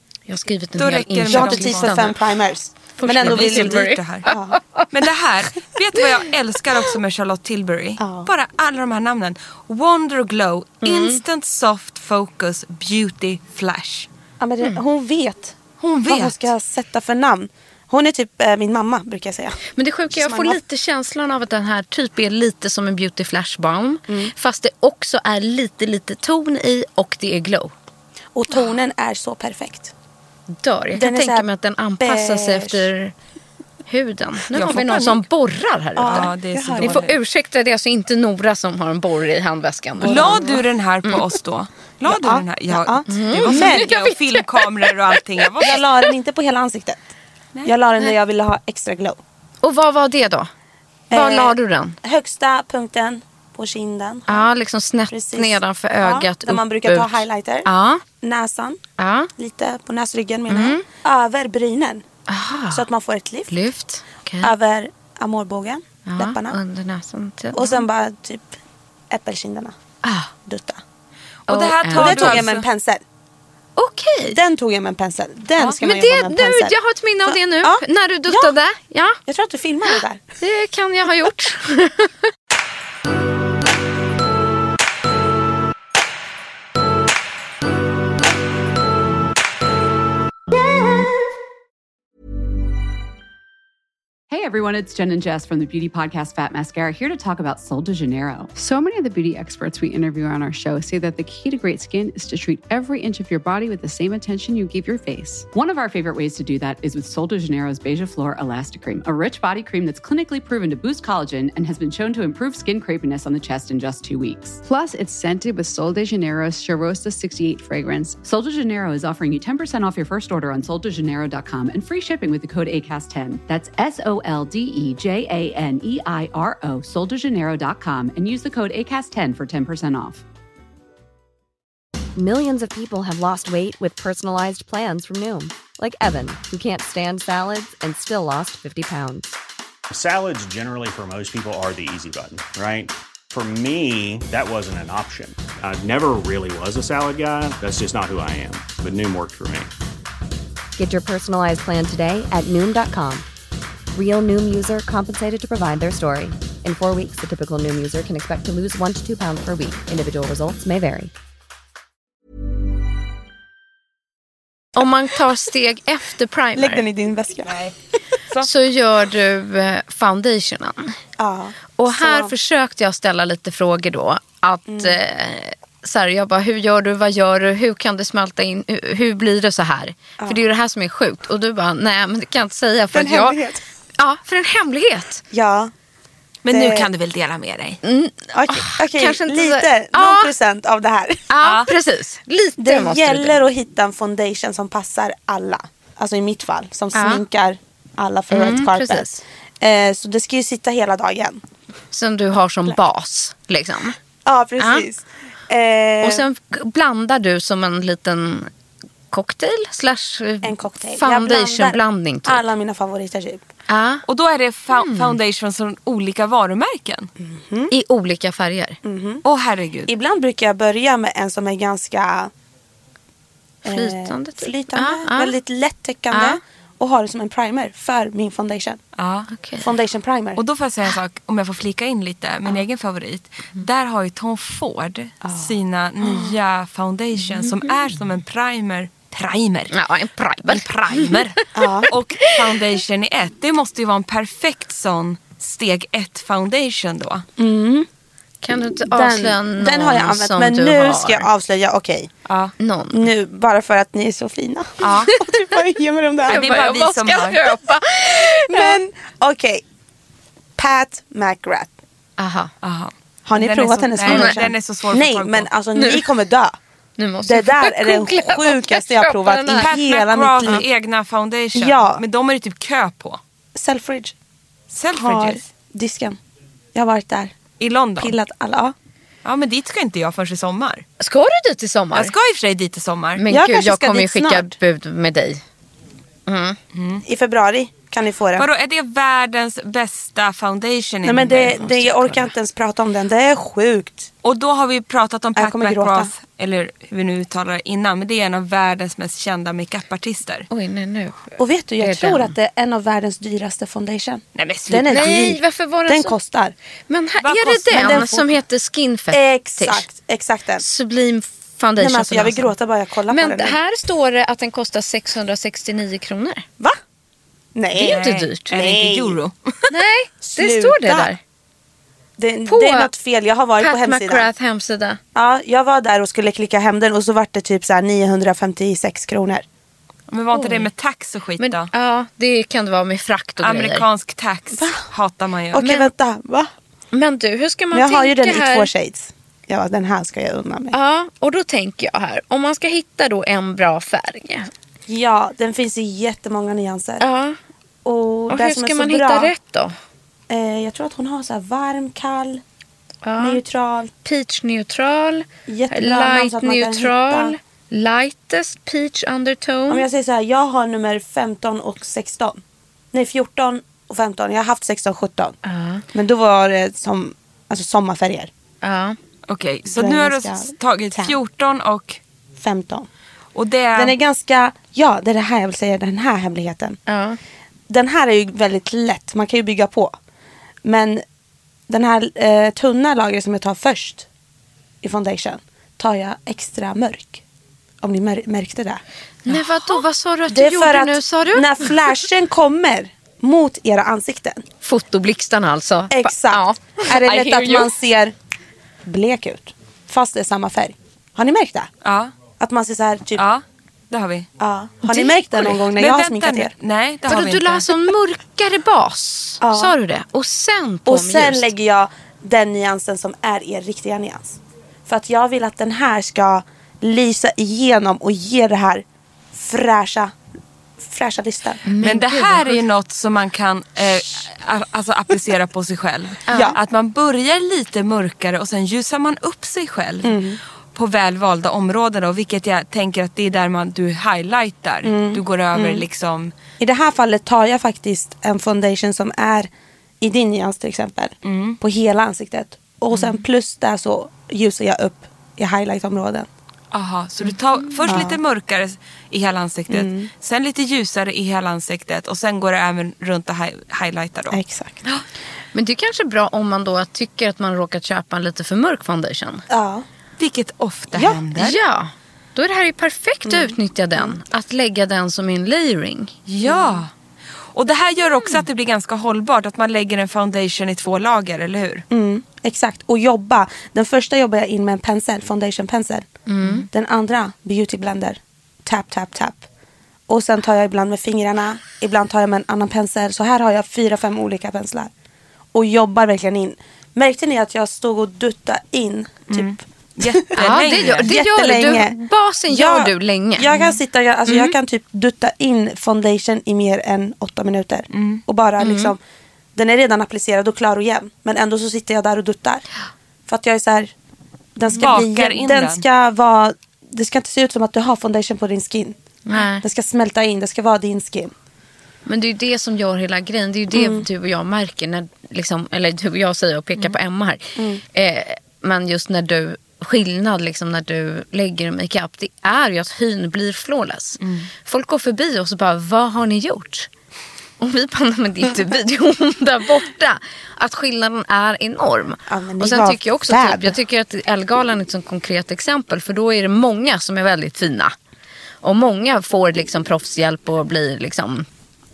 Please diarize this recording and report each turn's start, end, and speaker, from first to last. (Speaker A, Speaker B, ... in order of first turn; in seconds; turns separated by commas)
Speaker A: 0.3-2.2, Speaker B: 0.8-2.0, Speaker C: 1.3-4.6, Speaker A: 3.0-4.9, Speaker B: 3.2-4.3, Speaker B: 4.9-14.1, Speaker C: 8.0-8.3, Speaker A: 10.8-11.2, Speaker C: 14.4-19.6, Speaker B: 15.8-16.4, Speaker A: 19.7-27.7, Speaker C: 20.1-20.6, Speaker C: 24.1-24.3, Speaker C: 28.3-29.9, Speaker A: 30.5-33.1, Speaker C: 30.9-32.9, Speaker A: 33.9-40.5, Speaker B: 34.5-35.2, Speaker C: 36.0-37.1, Speaker B: 36.1-37.2, Speaker C: 40.0-40.6, Speaker B: 40.0-45.8, Speaker C: 42.0-44.0, Speaker A: 43.1-45.7, Speaker C: 45.6-47.0, Speaker C: 47.6-49.2, Speaker A: 49.6-50.5, Speaker C: 51.1-54.5, Speaker A: 51.1-52.0, Speaker A: 54.3-58.0, Speaker C: 55.1-57.7, Speaker C: 58.2-58.8, Speaker A: 59.0-59.3, Speaker C: 59.4-62.0, Speaker A: 60.5-60.8, Speaker A: 62.3-62.9, Speaker C: 62.7-63.6, Speaker A: 63.5-64.5, Speaker C: 64.4-66.6, Speaker A: 66.1-67.8, Speaker C: 67.5-68.6, Speaker C: 69.1-69.8, Speaker A: 70.0-70.3, Speaker C: 70.5-70.8, Speaker B: 71.5-72.6, Speaker A: 71.5-72.5, Speaker C: 71.9-73.0, Speaker A: 73.8-74.4, Speaker C: 74.3-78.6, Speaker A: 75.6-79.2, Speaker C: 79.3-80.2, Speaker A: 79.9-82.3, Speaker D: 94.3-98.5, Speaker E: 98.5-105.5, Speaker D: 105.5-114.6, Speaker E: 114.6-118.2, Speaker D: 118.2-130.2, Speaker F: 132.2-139.4, Speaker G: 139.9-149.7, Speaker F: 150.8-153.3, Speaker F: 153.9-161.1, Speaker A: 164.8-166.8, Speaker C: 166.6-167.6, Speaker B: 167.5-167.7, Speaker A: 168.4-171.0, Speaker C: 171.2-172.3, Speaker A: 171.8-183.4, Speaker C: 174.7-175.0, Speaker C: 180.2-180.4, Speaker C: 182.9-183.6, Speaker A: 184.0-185.2, Speaker C: 185.3-185.7, Speaker B: 186.4-187.8, Speaker C: 186.5-186.9, Speaker A: 187.8-190.3, Speaker C: 188.3-191.3, Speaker A: 191.3-193.4, Speaker B: 191.4-191.7, Speaker C: 192.6-201.4, Speaker A: 196.9-197.2, Speaker A: 198.3-199.2, Speaker A: 201.9-204.0, Speaker C: 204.2-206.3, Speaker A: 204.6-204.8, Speaker A: 206.0-208.5, Speaker A: 209.1-212.4, Speaker C: 210.4-213.4, Speaker A: 213.7-214.0, Speaker B: 214.1-217.1, Speaker A: 214.7-215.2, Speaker C: 217.2-217.7, Speaker A: 217.7-218.8, Speaker C: 218.8-219.2, Speaker B: 219.2-219.9, Speaker C: 219.9-222.3, Speaker C: 223.6-228.8, Speaker A: 223.7-225.3, Speaker A: 226.1-226.4, Speaker B: 229.0-229.3, Speaker A: 229.3-229.7, Speaker C: 229.6-230.4, Speaker B: 230.4-239.8, Speaker C: 235.2-236.3, Speaker A: 239.7-242.5, Speaker B: 240.5-247.3, Speaker C: 241.6-241.9, Speaker C: 247.4-247.9, Speaker A: 248.4-251.3, Speaker C: 248.7-252.1, Speaker B: 252.3-252.5, Speaker A: 252.6-253.0, Speaker C: 252.9-256.5, Speaker B: 254.8-255.2, Speaker A: 255.1-255.4, Speaker A: 256.3-258.8, Speaker B: 256.3-257.6, Speaker C: 258.2-259.6, Speaker C: 260.6-261.7, Speaker A: 262.2-262.5, Speaker B: 262.6-265.5, Speaker C: 263.3-266.6, Speaker A: 264.1-264.4, Speaker A: 265.8-266.0, Speaker A: 267.0-269.7, Speaker C: 267.2-270.7, Speaker B: 269.6-273.2, Speaker C: 271.5-272.0, Speaker C: 273.6-274.1, Speaker B: 274.7-275.4, Speaker C: 274.9-276.2, Speaker C: 276.7-277.4, Speaker B: 277.6-278.2, Speaker C: 278.0-278.8, Speaker B: 279.2-280.8, Speaker A: 281.0-282.1, Speaker B: 281.9-283.2, Speaker A: 283.2-285.4, Speaker C: 283.3-284.5, Speaker A: 286.3-286.6, Speaker B: 286.7-287.0, Speaker C: 287.0-288.5, Speaker B: 288.4-292.1, Speaker C: 291.0-294.1, Speaker B: 294.2-300.5, Speaker C: 295.4-296.1, Speaker A: 300.5-302.3, Speaker C: 301.4-306.6, Speaker B: 304.4-305.2, Speaker A: 304.9-306.1, Speaker A: 306.9-309.9, Speaker B: 307.2-308.1, Speaker C: 307.7-308.3, Speaker C: 309.1-310.6, Speaker A: 310.6-312.5, Speaker C: 311.8-313.6, Speaker A: 313.1-316.5, Speaker C: 317.6-319.2, Speaker A: 317.8-318.5, Speaker B: 317.8-319.7, Speaker A: 319.7-321.2, Speaker C: 320.2-321.1, Speaker C: 322.2-324.3, Speaker A: 322.5-322.9, Speaker A: 323.6-325.0, Speaker C: 325.1-329.4, Speaker B: 330.1-331.7, Speaker A: 330.3-330.7, Speaker A: 331.4-333.9, Speaker B: 333.4-335.7, Speaker C: 334.5-334.9, Speaker C: 335.5-336.5, Speaker A: 336.9-338.7, Speaker C: 337.7-340.8, Speaker A: 340.7-344.5, Speaker C: 344.9-347.1, Speaker A: 347.0-347.4, Speaker C: 347.8-349.3, Speaker A: 348.3-349.8, Speaker C: 350.3-352.4, Speaker A: 353.0-353.4, Speaker C: 353.2-353.9, Speaker A: 354.1-359.8, Speaker C: 355.5-357.4, Speaker C: 359.7-362.4, Speaker C: 362.9-365.4, Speaker A: 365.4-365.8, Speaker C: 365.9-368.3, Speaker A: 368.6-369.0, Speaker B: 369.3-372.0, Speaker C: 369.7-371.2, Speaker C: 372.4-372.9, Speaker B: 373.4-373.9, Speaker C: 373.7-376.8, Speaker A: 376.9-377.2, Speaker C: 377.7-379.9, Speaker C: 380.6-381.0, Speaker C: 381.7-384.1, Speaker C: 384.8-387.2, Speaker C: 387.8-388.8, Speaker A: 389.3-391.7, Speaker B: 389.3-389.8, Speaker C: 390.3-394.4, Speaker A: 394.6-397.7, Speaker C: 395.9-398.1, Speaker C: 398.9-401.7, Speaker B: 401.8-402.1, Speaker C: 402.4-403.2, Speaker B: 403.2-404.3, Speaker C: 404.4-406.5, Speaker A: 404.9-405.5, Speaker B: 405.7-407.7, Speaker A: 407.1-411.5, Speaker C: 409.4-409.8, Speaker C: 410.9-420.1, Speaker C: 420.8-421.6, Speaker A: 421.7-422.6, Speaker B: 421.8-430.2, Speaker A: 426.3-426.6, Speaker C: 426.3-426.6, Speaker C: 430.0-430.4, Speaker B: 430.8-436.3, Speaker C: 434.8-435.9, Speaker C: 436.6-446.3, Speaker B: 441.2-441.6, Speaker B: 446.7-455.0, Speaker C: 447.9-448.2, Speaker C: 449.7-450.1, Speaker C: 454.3-454.9, Speaker A: 455.5-459.4, Speaker C: 459.5-459.9, Speaker B: 460.2-461.6, Speaker C: 460.9-461.2, Speaker A: 461.4-466.1, Speaker C: 463.2-464.2, Speaker B: 466.3-466.9, Speaker C: 466.4-466.8, Speaker B: 467.5-471.8, Speaker C: 471.9-476.1, Speaker A: 476.3-476.7, Speaker C: 476.6-479.4, Speaker C: 480.1-484.9, Speaker C: 485.5-499.0, Speaker B: 489.3-491.1, Speaker A: 490.4-493.5, Speaker A: 494.3-494.6, Speaker B: 497.9-498.2, Speaker A: 498.6-498.9, Speaker C: 499.6-502.6, Speaker C: 503.3-503.9, Speaker C: 504.6-509.0, Speaker B: 504.8-505.8, Speaker A: 509.3-509.6, Speaker C: 509.6-511.3, Speaker A: 512.1-526.9, Speaker C: 513.7-514.1, Speaker C: 517.6-517.8, Speaker B: 524.2-524.5, Speaker A: 527.6-538.0, Speaker C: 532.3-533.8, Speaker A: 538.6-541.5